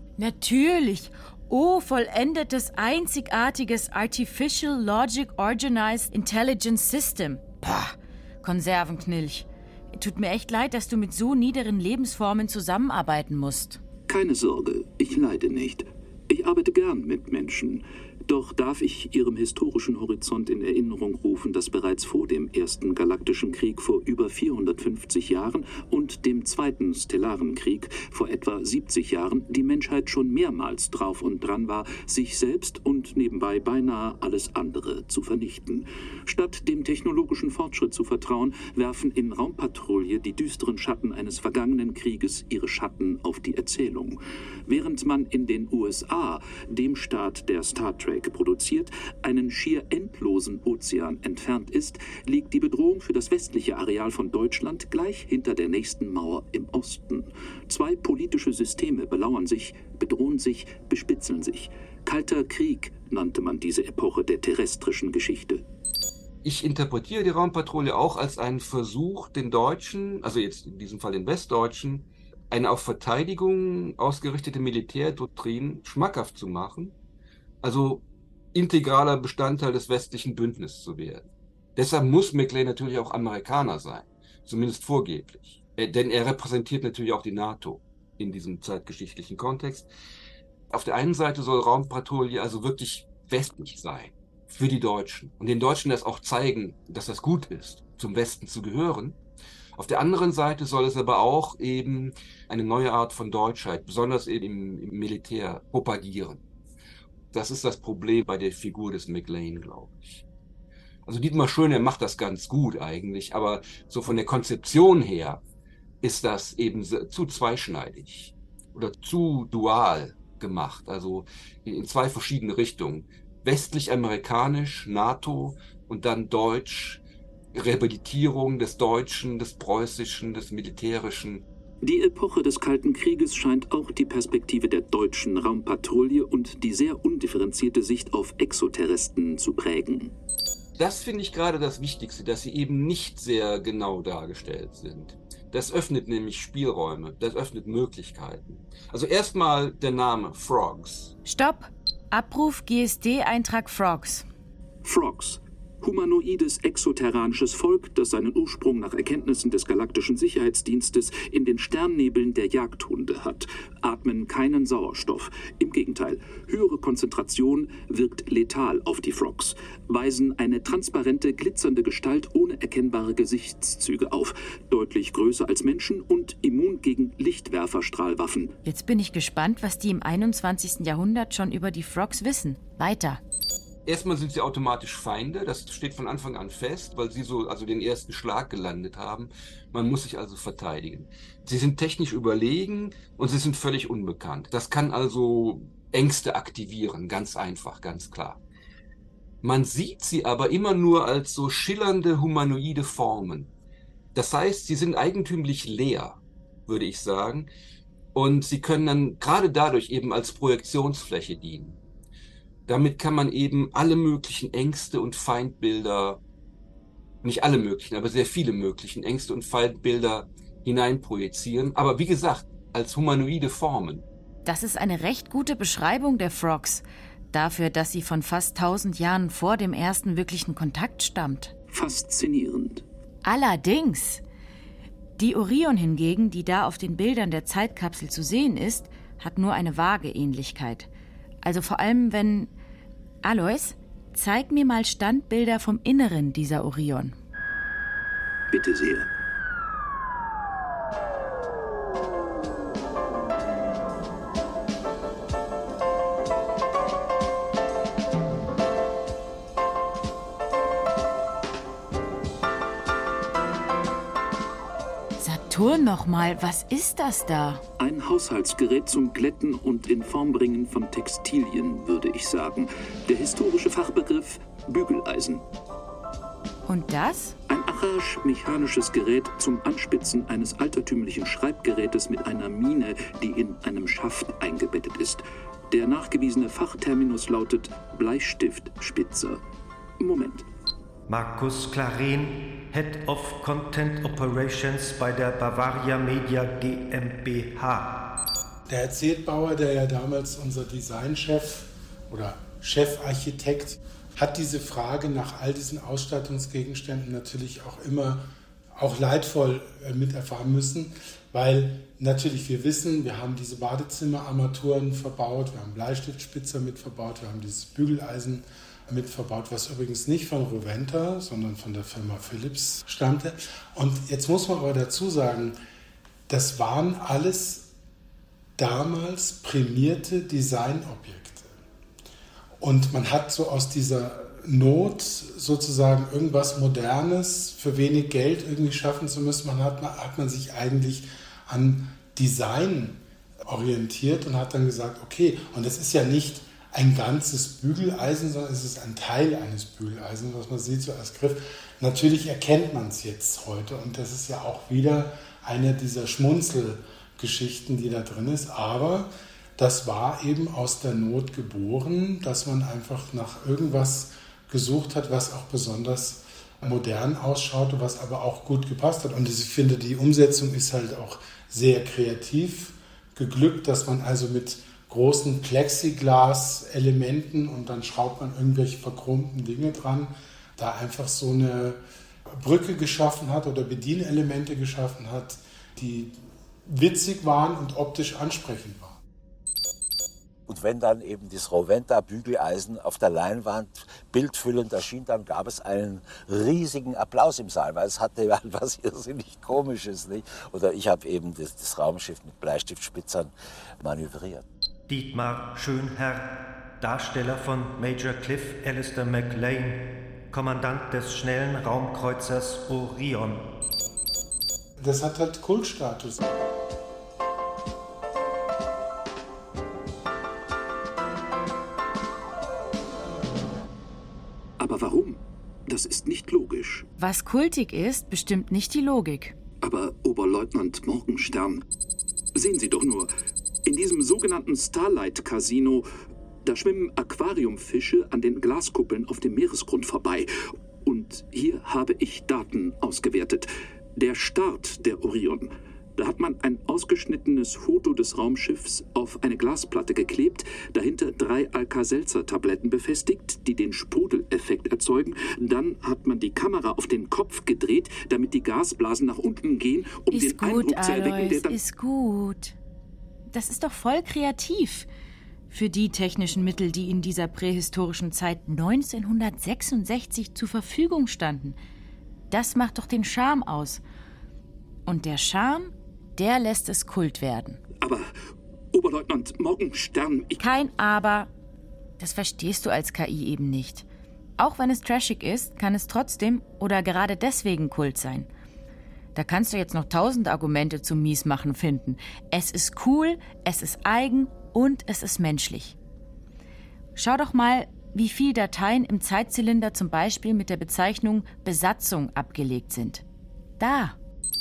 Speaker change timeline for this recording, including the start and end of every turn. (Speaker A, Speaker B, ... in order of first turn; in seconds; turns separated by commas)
Speaker A: 0.2-13.8, Speaker B: 14.1-65.6, Speaker C: 66.4-77.0, Speaker C: 77.6-89.9, Speaker C: 90.7-99.2, Speaker C: 99.8-106.4, Speaker C: 107.3-110.2, Speaker C: 111.0-115.4, Speaker C: 116.0-127.0, Speaker C: 127.5-131.4, Speaker B: 131.8-140.1, Speaker C: 140.8-151.1, Speaker A: 151.2-154.2, Speaker B: 154.8-178.5, Speaker A: 178.7-183.2, Speaker C: 183.9-198.4, Speaker C: 199.4-203.5, Speaker C: 204.1-207.5, Speaker C: 208.1-211.8, Speaker C: 212.7-216.2, Speaker C: 217.2-224.1, Speaker A: 224.4-231.5, Speaker B: 231.7-232.8, Speaker A: 233.2-234.2, Speaker A: 235.2-240.9, Speaker A: 241.4-242.5, Speaker A: 243.2-247.2, Speaker B: 248.5-249.1, Speaker A: 265.2-267.6, Speaker B: 267.8-275.4, Speaker A: 276.7-277.4, Speaker B: 277.5-289.4, Speaker B: 290.0-290.4, Speaker D: 291.1-297.9, Speaker E: 298.7-325.6, Speaker E: 326.3-327.7, Speaker E: 328.6-331.5, Speaker E: 332.6-381.8, Speaker E: 382.3-389.0, Speaker F: 390.5-404.4, Speaker D: 404.9-413.4, Speaker E: 414.8-416.3, Speaker B: 424.6-426.9, Speaker A: 427.0-429.4, Speaker B: 429.6-431.6, Speaker B: 432.4-433.1, Speaker B: 433.7-435.9, Speaker B: 436.4-440.3, Speaker B: 440.8-461.6, Speaker A: 460.1-462.6, Speaker A: 463.3-464.9, Speaker A: 465.5-471.6, Speaker A: 472.3-473.8, Speaker A: 474.9-477.6, Speaker B: 477.8-478.1, Speaker B: 478.7-480.4, Speaker A: 480.4-481.3, Speaker A: 482.0-483.9, Speaker A: 484.4-488.3, Speaker A: 489.1-495.8, Speaker A: 497.0-503.0, Speaker A: 503.6-504.0